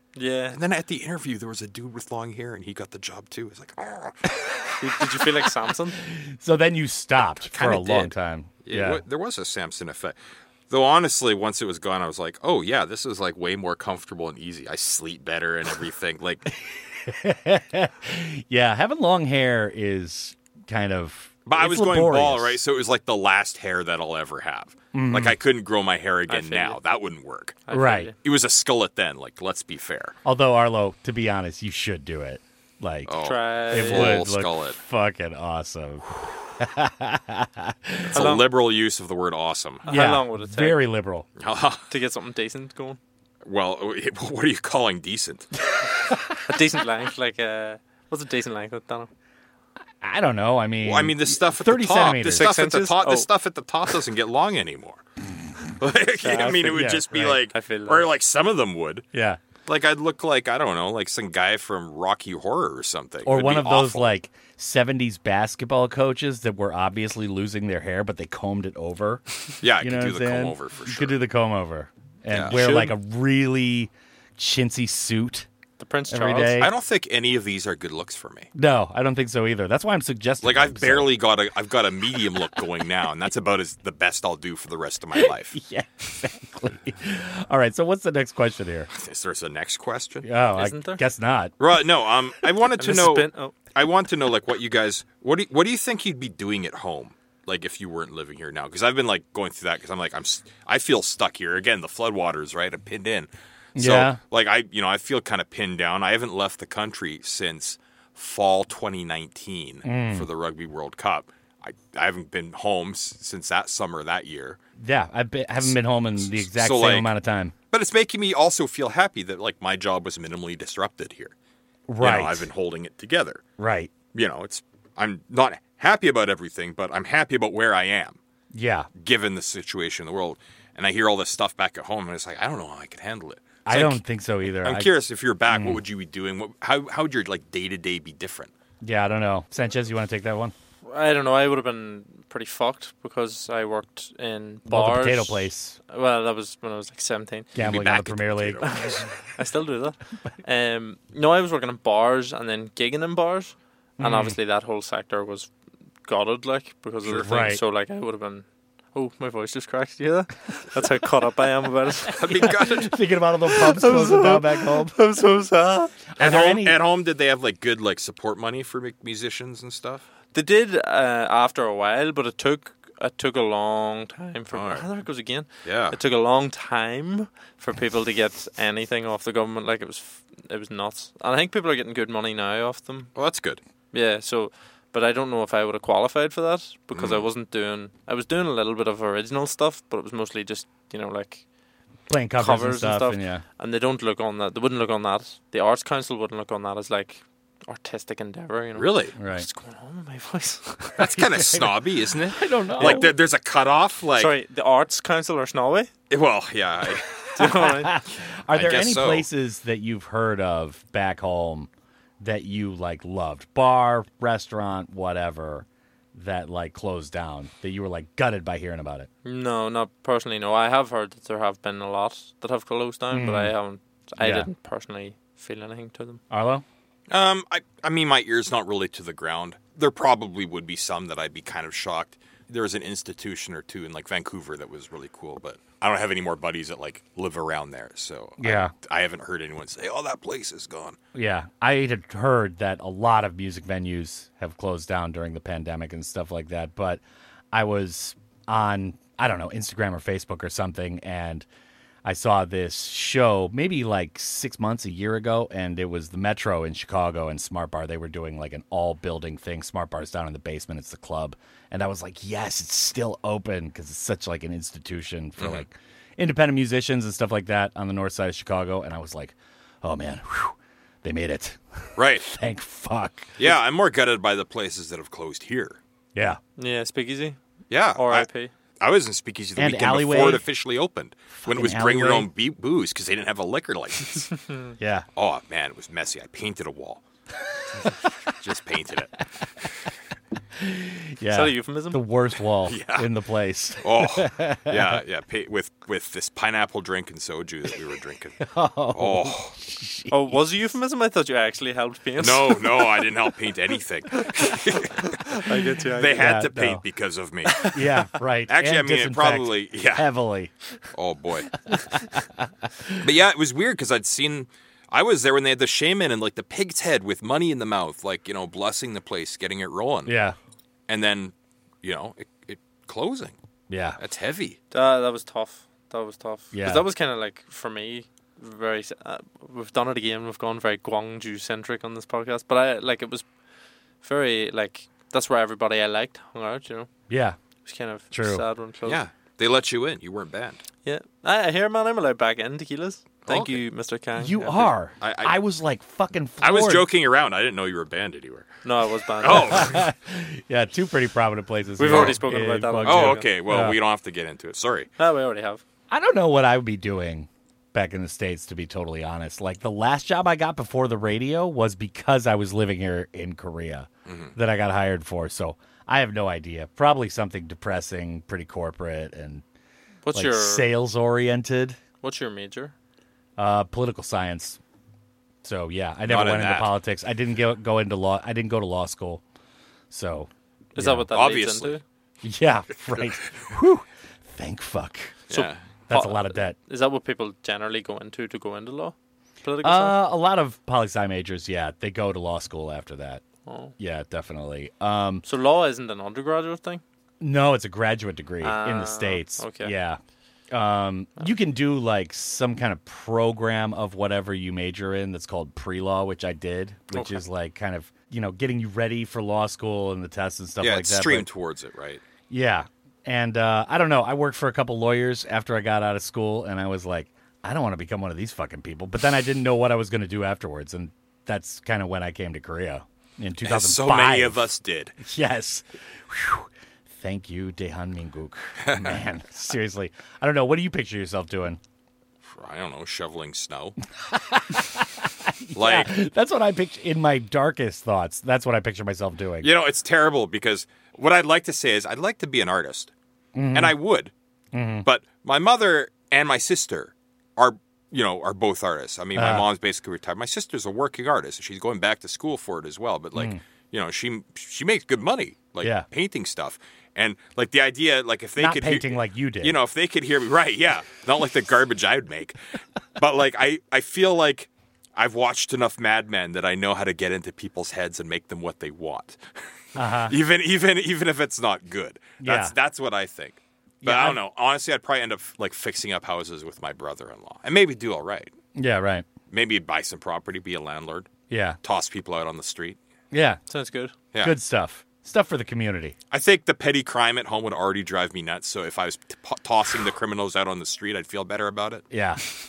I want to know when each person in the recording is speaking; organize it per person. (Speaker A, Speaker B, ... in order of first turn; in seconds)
Speaker A: 0.1-0.6, 4.8-6.0, 26.3-26.8, 27.7-28.1, 33.2-34.2, 38.1-38.5, 39.8-40.8, 41.9-43.0, 46.5-49.1, 52.3-53.3, 56.2-56.8, 57.5-58.1, 72.5-72.9, 75.8-76.6, 90.6-91.0, 92.8-93.5, 140.8-147.6, 148.6-155.5, 156.0-162.5, 163.5-166.0, 170.3-183.1, 183.9-191.4, 192.4-201.0, 202.8-203.1, 204.2-205.9, 207.3-208.0, 219.2-226.2, 276.6-277.4, 278.0-278.5, 291.3-292.0, 300.1-302.9, 305.0-306.3, 307.5-307.8, 324.7-333.3, 334.0-336.9, 337.6-339.0, 340.9-344.7, 348.6-349.7, 351.8-353.3, 355.0-355.6, 370.1-370.6, 372.0-372.7, 380.8-381.8, 385.4-390.0, 393.5-393.7, 395.2-396.8, 398.4-399.7, 406.9-407.2, 483.5-483.9
Speaker B: 0.5-4.4, 7.4-8.1, 8.6-10.2, 10.7-16.6, 21.5-27.7, 28.2-30.2, 33.1-34.8, 38.1-39.9, 41.4-41.9, 43.4-45.5, 50.8-55.0, 55.8-59.1, 59.7-64.2, 69.6-71.2, 72.3-72.6, 76.6-78.5, 80.4-85.6, 88.9-90.3, 91.6-114.6, 115.6-117.1, 117.7-121.3, 122.0-123.4, 124.1-128.2, 129.0-138.5, 147.6-149.1, 162.1-163.0, 166.2-170.1, 174.5-174.9, 175.6-176.0, 183.2-183.6, 186.9-187.2, 198.8-199.1, 201.0-204.3, 206.1-207.3, 208.5-209.3, 227.1-241.0, 265.4-265.6, 272.0-272.3, 273.4-275.8, 277.7-278.3, 278.8-284.3, 285.2-287.0, 287.8-289.2, 292.6-293.1, 293.8-299.6, 302.2-305.4, 306.0-307.9, 308.5-310.1, 310.9-311.7, 313.0-320.1, 320.9-323.4, 324.0-324.6, 338.9-340.6, 343.3-343.6, 345.0-345.4, 346.4-348.5, 349.2-349.9, 351.9-352.1, 352.8-354.9, 364.1-364.4, 376.1-376.7, 381.1-381.8, 385.3-385.6, 410.6-412.1, 423.4-425.0, 428.6-429.0, 432.3-433.8, 435.6-435.9, 439.4-442.9, 443.5-444.1, 444.8-462.4, 463.0-478.3, 479.3-481.1, 481.6-482.8, 486.1-491.9
Speaker C: 6.0-9.0, 17.1-22.6, 24.9-25.4, 27.7-28.1, 30.2-33.2, 33.7-38.3, 39.9-41.3, 50.0-52.5, 56.6-57.4, 59.1-59.4, 63.2-69.2, 69.8-75.5, 76.1-76.7, 78.5-81.1, 85.2-88.9, 90.2-91.5, 103.8-104.2, 109.8-110.3, 114.8-117.5, 121.9-122.5, 123.6-123.9, 128.5-128.9, 133.7-134.9, 135.5-135.8, 138.8-140.5, 144.7-145.8, 147.6-148.7, 154.0-154.4, 157.1-157.6, 162.4-165.0, 166.2-166.8, 192.1-193.4, 199.2-199.5, 201.1-201.8, 202.3-203.1, 207.4-211.7, 212.2-219.1, 223.1-223.5, 224.2-224.5, 226.3-226.7, 238.4-238.7, 241.1-251.5, 252.1-273.4, 276.1-276.4, 279.6-280.4, 281.4-282.3, 284.8-285.1, 287.8-288.1, 290.5-295.0, 298.4-300.4, 306.1-306.8, 307.7-310.5, 311.7-313.1, 320.1-320.4, 323.7-324.0, 326.5-326.9, 337.1-337.4, 338.1-338.4, 344.2-346.9, 349.3-353.8, 355.9-369.4, 370.1-371.8, 373.4-374.6, 375.4-379.2, 379.9-381.1, 382.2-386.6, 389.6-393.2, 393.8-395.2, 397.2-400.0, 400.5-411.3, 412.3-424.5, 425.0-431.6, 434.0-439.5, 443.4-443.8, 444.5-444.9, 449.1-449.5, 455.6-455.9, 458.4-459.6, 469.8-470.1, 472.2-472.5, 473.8-474.2, 478.6-479.1, 481.3-481.6, 483.1-483.4, 484.2-486.0, 491.9-492.2